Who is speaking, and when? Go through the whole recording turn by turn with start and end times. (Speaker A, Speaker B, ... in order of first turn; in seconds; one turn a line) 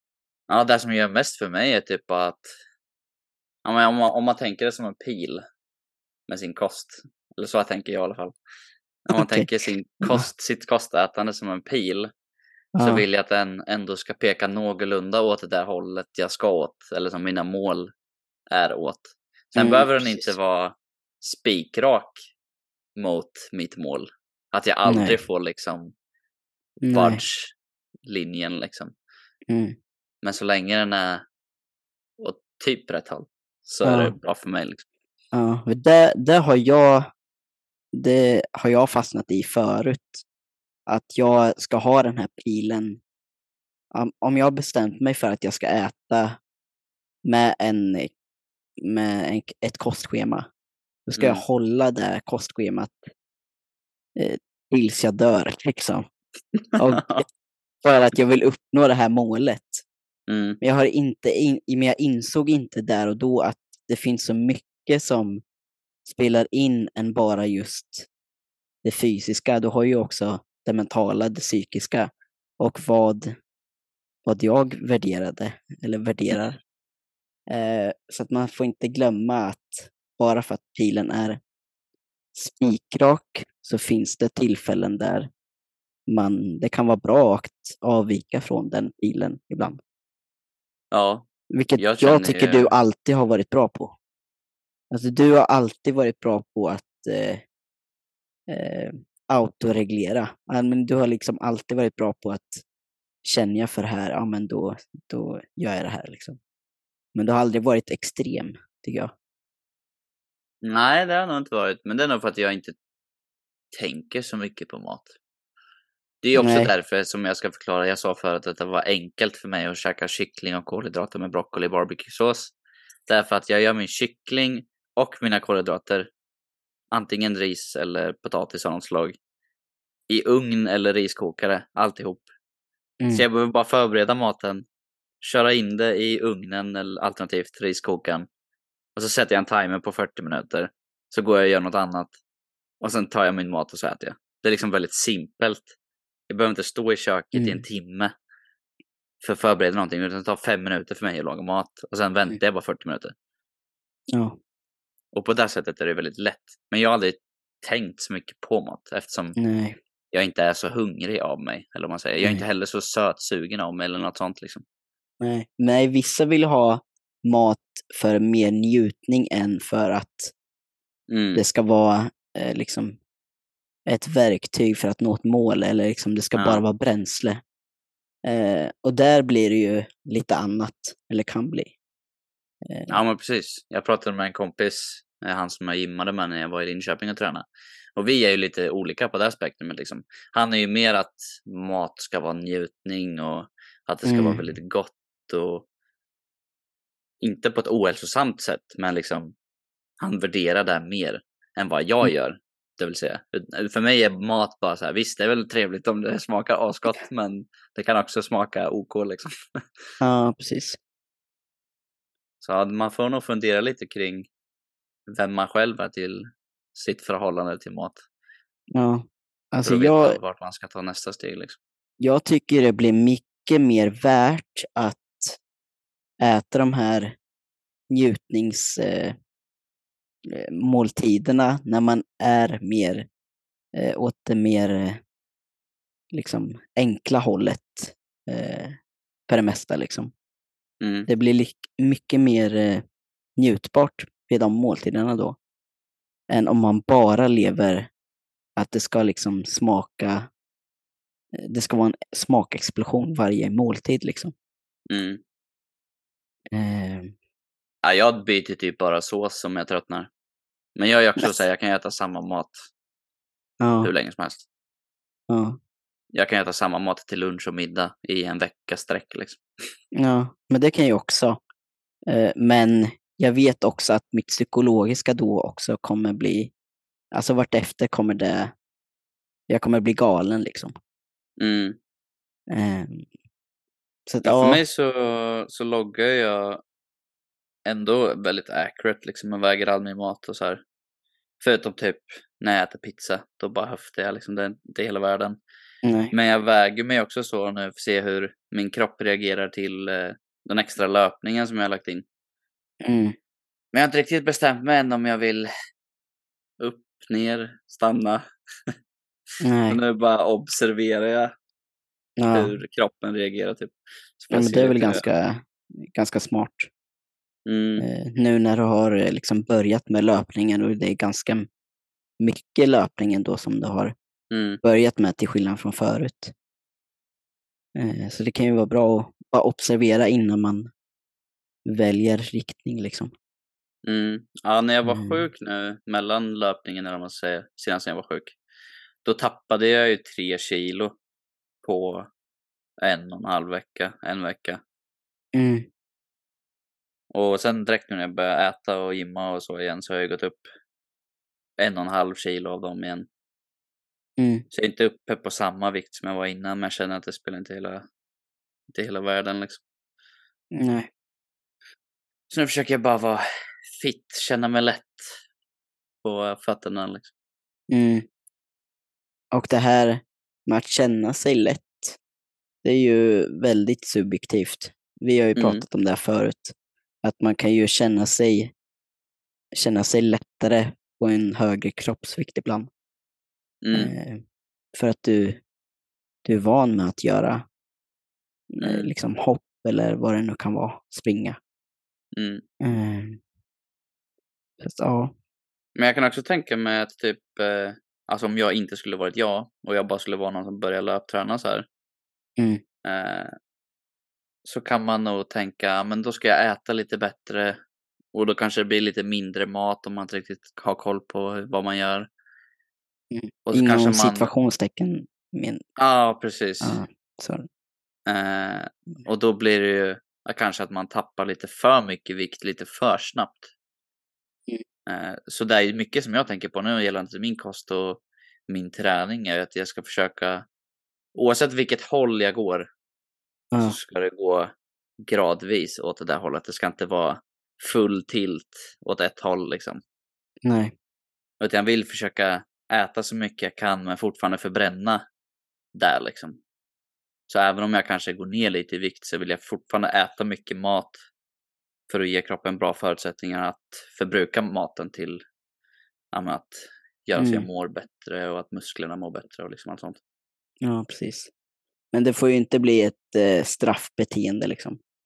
Speaker A: 0.5-2.5
Speaker A: 3.6-5.4
Speaker A: 6.3-8.4
Speaker A: 9.1-12.1
Speaker B: 9.1-9.5
Speaker B: 12.8-13.1
Speaker A: 12.8-17.9
Speaker A: 18.5-22.2
Speaker B: 19.6-20.4
Speaker A: 23.0-25.9
Speaker B: 24.9-25.2
Speaker B: 26.8-27.2
Speaker A: 26.9-27.5
Speaker A: 28.1-28.9
Speaker B: 29.5-29.8
Speaker A: 30.2-31.2
Speaker A: 32.2-34.8
Speaker B: 33.8-34.1
Speaker B: 35.3-37.1
Speaker B: 37.9-40.2
Speaker B: 40.9-43.0
Speaker B: 43.9-46.4
Speaker B: 47.2-48.1
Speaker B: 48.8-50.5
Speaker B: 51.1-53.1
Speaker A: 51.2-51.4
Speaker B: 54.1-56.0
Speaker A: 56.7-57.2
Speaker B: 56.8-57.3
Speaker B: 57.8-59.9
Speaker A: 60.3-60.6
Speaker B: 60.6-65.4
Speaker B: 66.1-68.1
Speaker B: 68.8-73.4
Speaker B: 74.2-76.6
Speaker B: 77.5-81.4
Speaker B: 82.3-85.3
Speaker B: 86.1-89.8
Speaker A: 90.9-91.3
Speaker B: 91.5-94.0
Speaker A: 91.8-92.7
Speaker B: 94.9-97.5
Speaker B: 98.5-102.6
Speaker B: 103.2-106.4
Speaker B: 107.2-109.1
Speaker A: 110.6-112.8
Speaker A: 113.7-115.2
Speaker A: 116.2-122.5
Speaker B: 116.4-116.7
Speaker A: 123.1-126.1
Speaker A: 126.9-129.2
Speaker A: 130.1-132.3
Speaker B: 133.0-133.2
Speaker A: 133.1-134.6
Speaker A: 135.2-138.3
Speaker A: 139.0-142.2
Speaker A: 142.8-145.7
Speaker A: 146.3-148.1
Speaker B: 147.3-147.6
Speaker A: 149.2-153.1
Speaker B: 154.1-154.4
Speaker A: 155.1-159.4
Speaker B: 159.4-159.8
Speaker A: 160.1-164.6
Speaker B: 165.2-170.3
Speaker A: 171.1-171.4
Speaker B: 171.3-173.0
Speaker B: 173.9-177.4
Speaker A: 176.3-176.6
Speaker B: 178.2-181.7
Speaker B: 182.6-183.0
Speaker A: 182.9-195.7
Speaker B: 194.1-194.4
Speaker A: 197.2-199.3
Speaker A: 200.0-209.6
Speaker B: 210.0-210.8
Speaker A: 212.4-214.3
Speaker A: 215.1-218.0
Speaker B: 218.7-220.2
Speaker A: 219.6-221.6
Speaker B: 222.0-225.4
Speaker B: 226.2-227.2
Speaker B: 227.9-229.2
Speaker B: 230.3-233.1
Speaker B: 233.8-235.0
Speaker B: 236.1-238.8
Speaker B: 239.3-240.1
Speaker A: 240.8-241.1
Speaker B: 241.1-242.8
Speaker B: 243.4-245.4
Speaker B: 246.3-247.9
Speaker B: 248.6-250.3
Speaker B: 251.3-254.3
Speaker A: 254.9-255.2
Speaker B: 256.5-257.1
Speaker A: 257.8-260.1
Speaker A: 260.8-262.7
Speaker B: 263.6-263.9
Speaker A: 263.8-264.4
Speaker B: 265.3-265.6
Speaker A: 266.1-269.4
Speaker B: 269.9-271.4
Speaker B: 272.1-276.5
Speaker B: 277.1-278.5
Speaker B: 279.5-280.7
Speaker A: 281.4-281.8
Speaker B: 282.5-283.1
Speaker B: 284.1-284.6
Speaker A: 284.2-286.6
Speaker A: 287.7-290.6
Speaker A: 291.4-295.4
Speaker B: 295.8-296.1
Speaker A: 296.1-302.1
Speaker B: 302.8-303.2
Speaker A: 303.7-305.5
Speaker A: 306.6-308.2
Speaker B: 309.4-309.8
Speaker A: 309.7-311.3
Speaker B: 312.2-312.6
Speaker A: 312.3-315.1
Speaker B: 314.3-316.7
Speaker A: 317.5-317.9
Speaker B: 317.8-321.5
Speaker B: 322.2-323.9
Speaker A: 324.3-324.6
Speaker B: 324.6-326.3
Speaker B: 327.8-330.7
Speaker B: 331.7-333.1
Speaker A: 333.9-338.4
Speaker B: 334.8-335.2
Speaker A: 339.0-341.0
Speaker A: 341.6-342.1
Speaker A: 342.8-344.6
Speaker B: 345.4-345.7
Speaker A: 347.1-350.5
Speaker A: 351.6-353.1
Speaker B: 354.2-354.4
Speaker A: 354.5-357.9
Speaker A: 358.7-359.6
Speaker B: 360.5-360.9
Speaker A: 362.3-365.2
Speaker A: 366.0-367.1
Speaker B: 367.7-368.1
Speaker B: 369.3-372.0
Speaker B: 372.6-378.5
Speaker A: 375.4-375.6
Speaker B: 379.6-382.7
Speaker A: 383.6-383.9
Speaker B: 383.7-384.2
Speaker B: 384.7-385.4
Speaker B: 386.2-387.4
Speaker B: 388.5-391.4
Speaker A: 388.6-388.9
Speaker A: 392.1-392.4
Speaker B: 392.6-393.2
Speaker B: 394.6-395.1
Speaker A: 395.8-401.7
Speaker A: 402.8-403.4
Speaker A: 404.4-407.6
Speaker A: 408.1-412.1
Speaker B: 413.1-415.6
Speaker A: 413.5-414.3
Speaker A: 415.8-416.8
Speaker B: 416.6-417.5
Speaker A: 418.1-423.5
Speaker A: 424.9-430.4
Speaker A: 431.1-432.7
Speaker A: 433.6-439.8
Speaker B: 440.4-440.7
Speaker A: 441.4-445.0
Speaker A: 445.8-446.4
Speaker A: 447.3-451.0
Speaker A: 451.9-455.2
Speaker A: 456.1-460.0
Speaker B: 457.2-457.4
Speaker B: 460.6-461.3
Speaker B: 461.9-464.8